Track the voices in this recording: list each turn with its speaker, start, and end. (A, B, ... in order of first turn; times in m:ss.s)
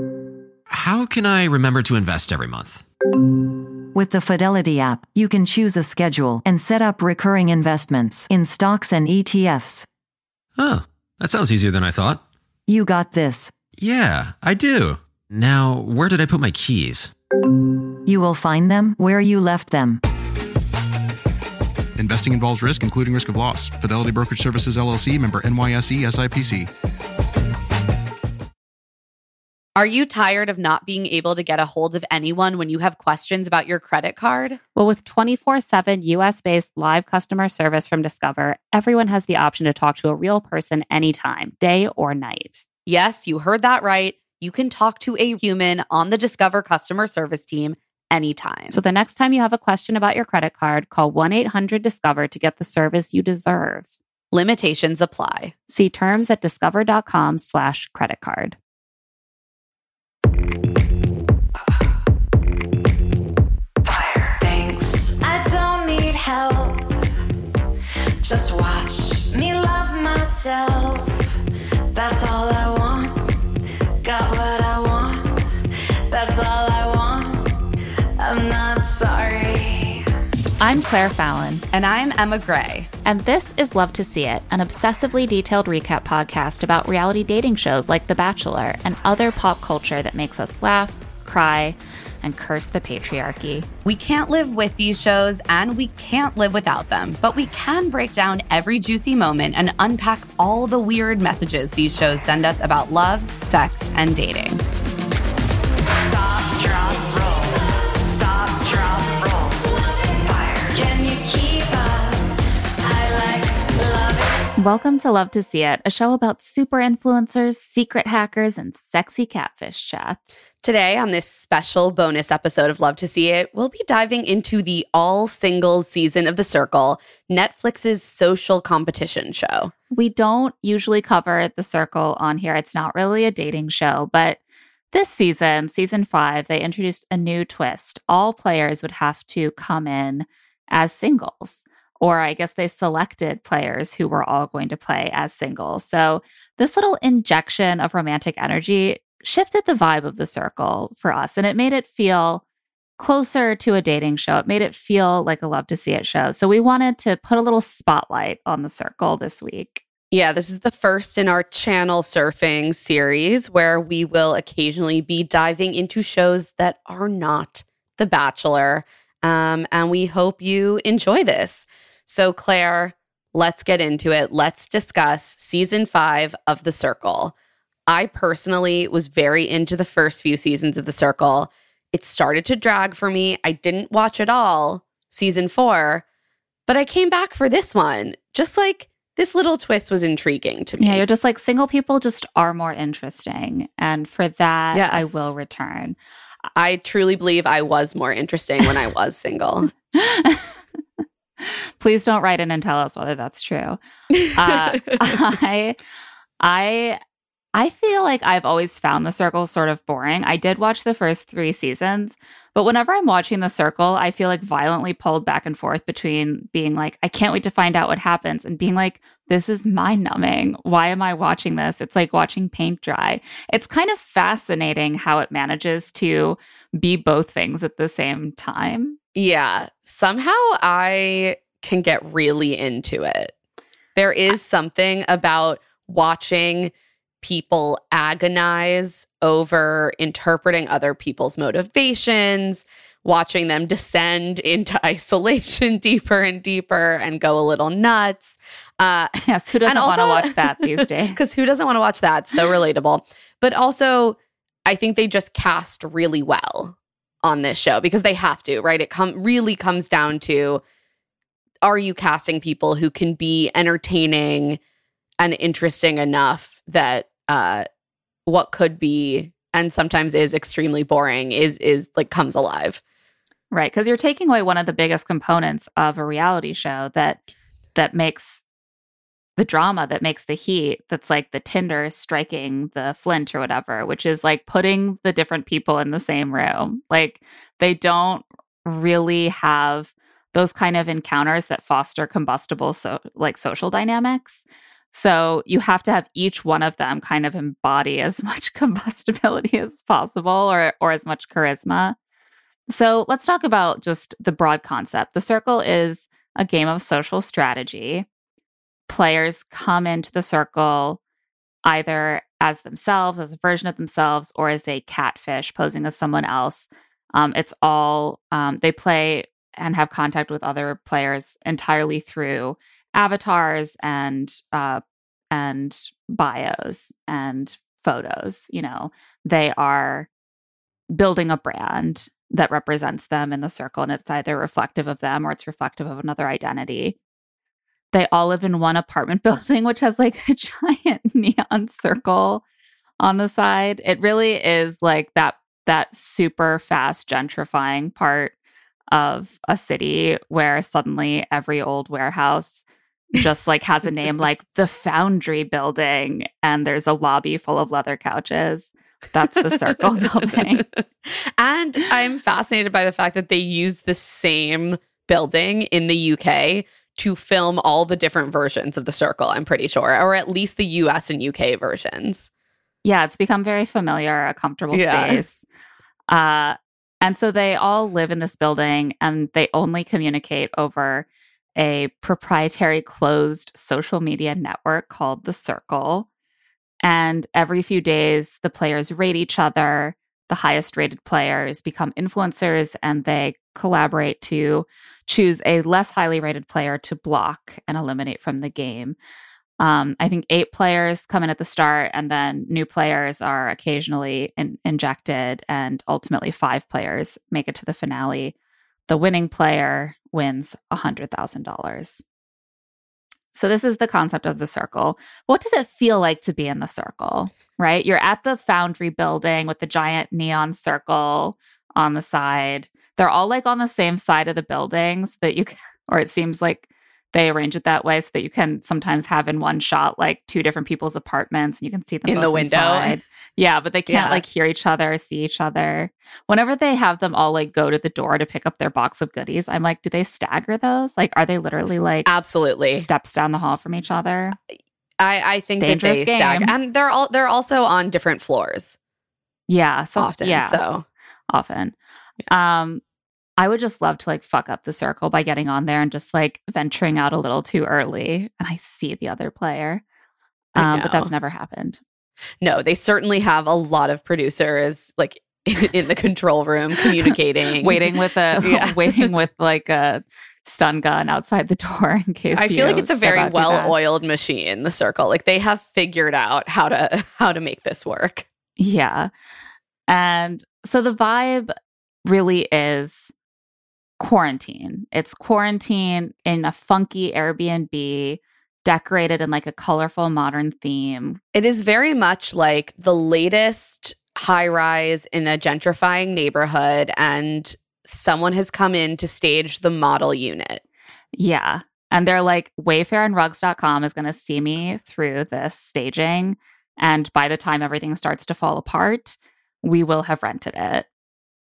0:00.7-0:02.8 A
0:03.9-0:09.9 B
0:10.6-0:12.2 A
0:12.7-0:13.5 B
0:13.8-0:17.1 A
0:18.0-0:20.0 B
0:22.0-0:26.7 C
0:29.8-0:34.6 D
0:34.8-0:42.6 E
0:42.8-0:48.8 D
0:48.7-0:53.9 E
0:54.3-0:55.5 D
0:55.7-0:58.6 E
1:03.8-1:06.9 F
1:08.2-1:11.4 F
1:11.9-1:13.3 F
1:14.0-1:15.5 F
1:16.1-1:17.6 F
1:18.2-1:20.0 F
1:20.6-1:21.6 E
1:21.7-1:22.9 D
1:23.0-1:33.7 E
1:33.8-1:44.6 D
1:46.0-1:54.4 F
1:54.6-2:00.2 E
2:00.6-2:09.7 D
2:09.9-2:14.4 E
2:14.9-2:32.4 E
2:33.0-2:39.8 E
2:40.1-2:57.3 D
2:57.9-3:06.0 D
3:06.7-3:11.0 D
3:10.8-3:16.0 E
3:14.7-3:15.3 D
3:16.5-3:19.7 D
3:19.9-3:20.5 E
3:21.4-3:23.8 E
3:24.3-3:24.8 D
3:24.3-3:25.8 E
3:26.4-3:27.0 E
3:27.5-3:49.0 E
3:49.1-3:53.3 D
3:54.0-4:20.6 D
4:09.2-4:11.2 E
4:21.6-4:24.6 D
4:25.2-4:27.6 D
4:28.2-4:32.8 D
4:33.5-4:37.2 E
4:37.7-4:38.4 E
4:39.4-5:02.0 E
5:02.7-5:08.0 E
5:08.9-5:11.0 E
5:11.6-5:30.1 E
5:30.9-5:37.0 E
5:37.9-5:42.4 E
5:43.0-5:48.3 E
5:48.9-6:00.6 E
6:00.5-6:12.3 D
6:12.8-6:15.4 E
6:14.7-6:15.2 D
6:16.1-6:26.1 E
6:26.8-6:39.0 E
6:39.6-6:48.3 E
6:48.9-6:52.0 E
6:53.3-7:22.1 E
7:12.1-7:13.0 D
7:13.9-7:14.2 D
7:22.0-7:22.9 D
7:22.7-7:24.4 E
7:25.0-7:28.8 D
7:25.6-7:26.5 E
7:29.5-7:30.6 E
7:30.0-7:30.8 D
7:31.3-7:31.7 E
7:32.3-7:32.8 E
7:33.4-7:39.8 E
7:40.5-7:41.1 D
7:40.5-7:41.8 E
7:42.4-7:49.1 D
7:47.6-7:53.8 E
7:52.3-7:58.3 D
7:58.6-7:59.1 E
7:59.9-8:01.5 E
8:02.0-8:03.1 E
8:04.0-8:11.2 E
8:11.3-8:20.6 D
8:21.1-8:30.9 E